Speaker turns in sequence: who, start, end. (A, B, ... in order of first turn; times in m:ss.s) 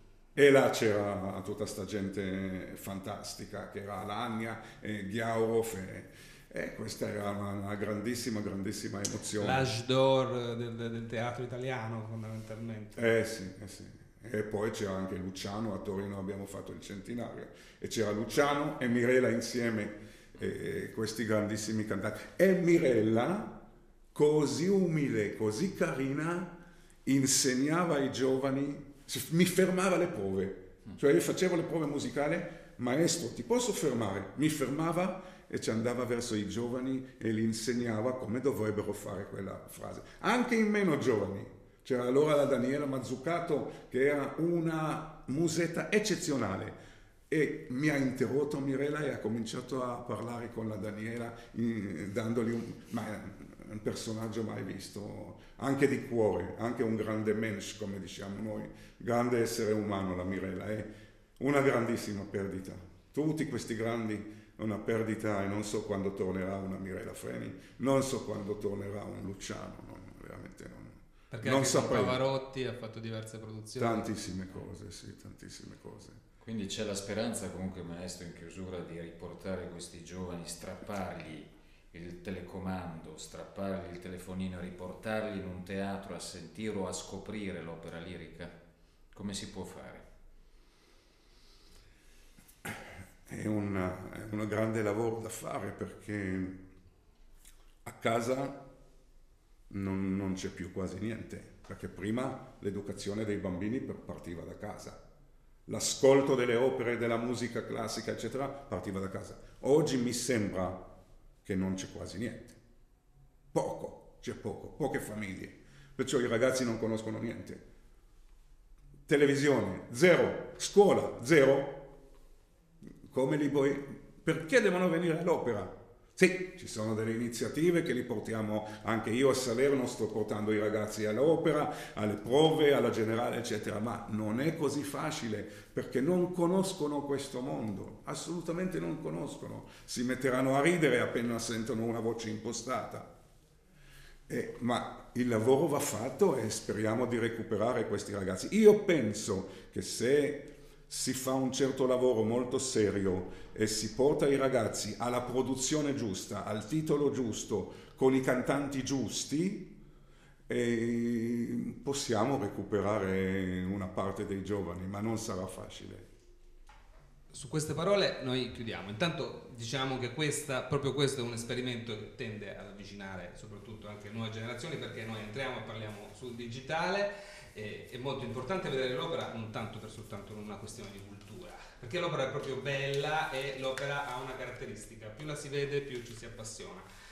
0:00.3-0:09.7 A
0:09.4-0:13.1 B
0:13.0-0:23.6 A
0:24.1-0:46.8 A
0:47.3-1:12.2 A
1:11.3-1:14.1 B
1:13.8-1:16.2 A
1:16.4-1:28.6 C
1:29.1-1:30.0 C
1:32.6-1:36.6 A
1:37.8-1:38.6 A
1:39.7-1:45.0 A
1:45.7-1:50.9 A
1:51.4-1:52.6 A
1:53.5-1:57.6 A
1:59.1-2:01.9 A
2:03.0-2:23.1 A
2:24.3-2:39.7 A
2:40.5-2:46.1 A
2:47.3-3:06.8 B